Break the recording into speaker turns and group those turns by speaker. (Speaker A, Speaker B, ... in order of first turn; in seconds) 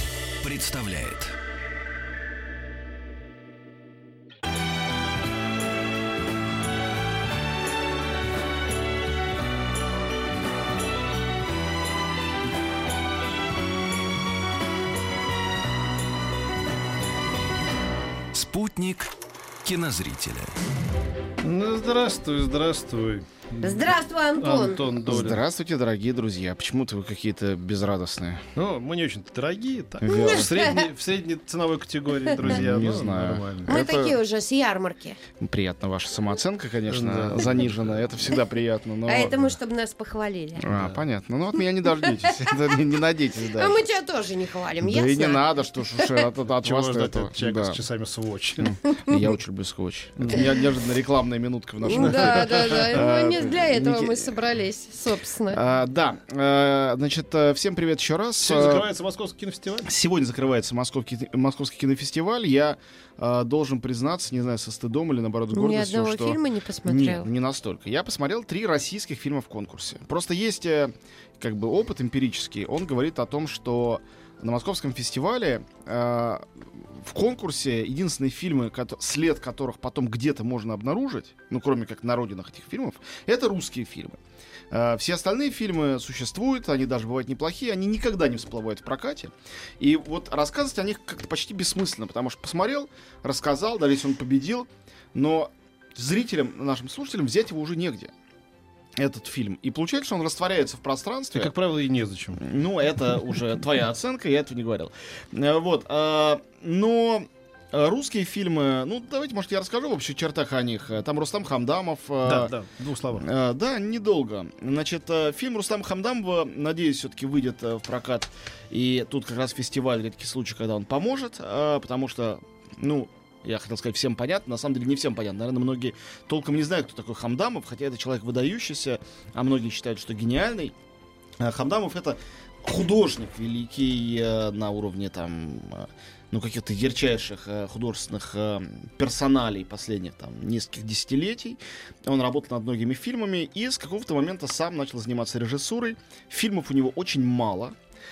Speaker A: 0.4-1.3, 18.3-19.1, 19.6-20.6
Speaker B: 21.4-23.9, 24.4-25.4, 28.5-33.7, 36.9-38.1, 40.7-41.0, 46.6-48.8, 50.2-50.5, 52.1-52.9, 58.4-59.9, 101.3-102.4, 112.2-113.2
Speaker C: 23.6-24.8, 30.1-30.9, 32.4-32.8, 33.6-35.2, 39.0-40.7, 42.0-42.6, 43.5-46.2, 51.8-55.6, 65.5-67.3
Speaker D: 25.0-28.4, 30.0-30.5, 32.4-34.2, 35.4-39.5, 40.6-43.8, 44.8-47.8, 48.6-54.3, 55.5-58.9, 59.8-84.2, 84.7-98.1, 99.0-101.5, 102.4-112.5, 113.1-130.7, 131.4-147.8